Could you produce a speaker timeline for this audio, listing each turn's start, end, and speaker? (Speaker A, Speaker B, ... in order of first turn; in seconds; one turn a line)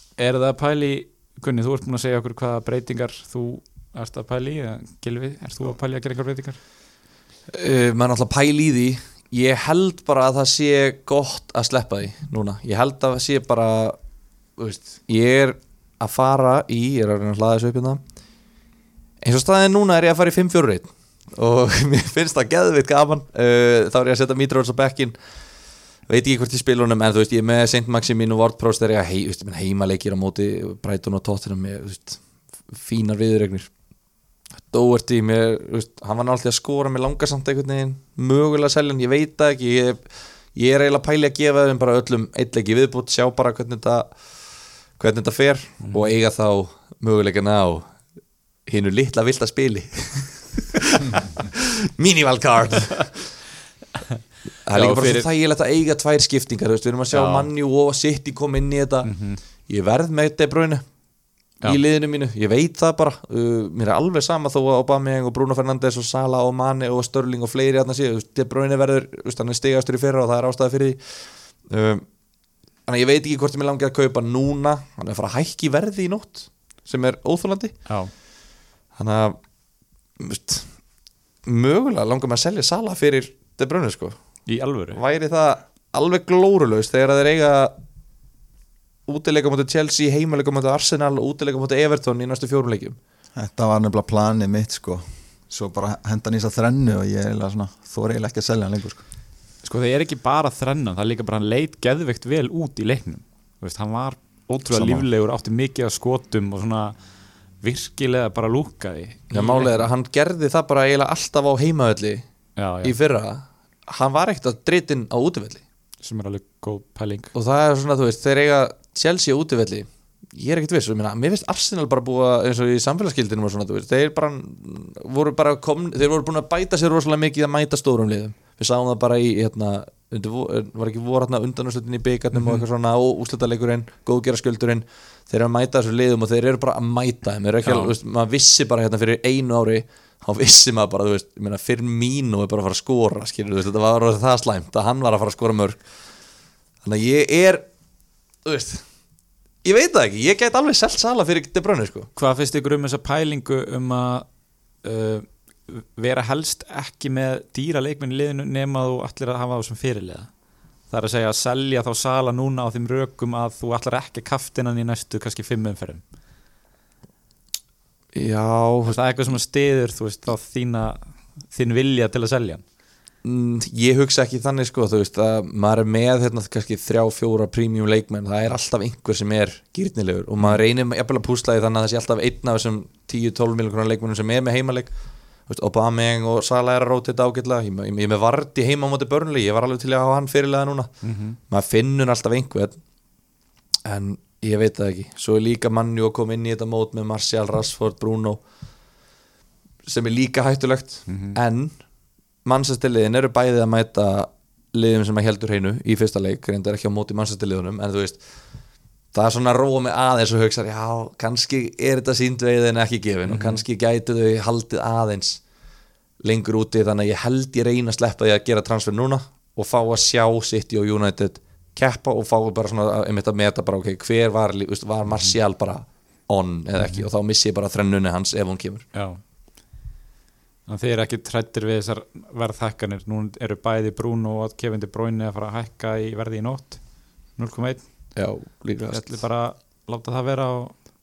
Speaker A: 0.2-6.6
Speaker B: 7.5-14.0
Speaker B: 14.6-18.0
Speaker B: 19.2-25.1
Speaker B: 26.1-33.7
Speaker B: 34.7-44.1
Speaker B: 45.0-47.9
Speaker A: 45.8-46.1
Speaker B: 48.7-53.3
Speaker B: 54.6-59.1
Speaker A: 54.7-55.3
Speaker A: 57.1-57.5
Speaker A: 59.0-59.4
Speaker B: 59.7-60.8
Speaker B: 61.6-72.0
Speaker B: 72.9-77.7
Speaker B: 79.0-79.4
Speaker B: 80.2-80.7
Speaker B: 81.5-84.2
Speaker A: 84.5-85.0
Speaker B: 84.9-87.7
Speaker B: 89.1-93.0
Speaker C: 93.3-99.0
Speaker A: 99.6-106.9
Speaker B: 104.7-105.0
Speaker A: 107.6-109.9
Speaker B: 109.3-112.2
Speaker A: 112.6-113.0
Speaker B: 112.8-115.6
Speaker A: 116.0-117.3
Speaker B: 117.3-145.8
Speaker A: 132.3-132.6
Speaker A: 137.6-137.9
Speaker B: 146.8-147.6
Speaker B: 148.4-148.8
Speaker B: 149.6-152.1
Speaker A: 152.2-154.2
Speaker A: 154.8-160.3
Speaker A: 160.9-166.0
Speaker B: 168.1-169.0
Speaker A: 168.9-171.0
Speaker A: 171.5-172.6
Speaker B: 173.2-184.9
Speaker B: 185.5-190.9
Speaker A: 191.0-191.4
Speaker B: 191.5-192.8
Speaker B: 193.8-198.4
Speaker B: 199.8-201.7
Speaker A: 201.1-201.3
Speaker B: 202.4-208.2
Speaker B: 209.1-215.4
Speaker A: 213.3-213.6
Speaker B: 216.2-228.8
Speaker A: 226.8-227.1
Speaker A: 228.9-229.2
Speaker A: 230.7-236.8
Speaker A: 237.4-237.8
Speaker B: 238.1-239.2
Speaker A: 238.9-240.7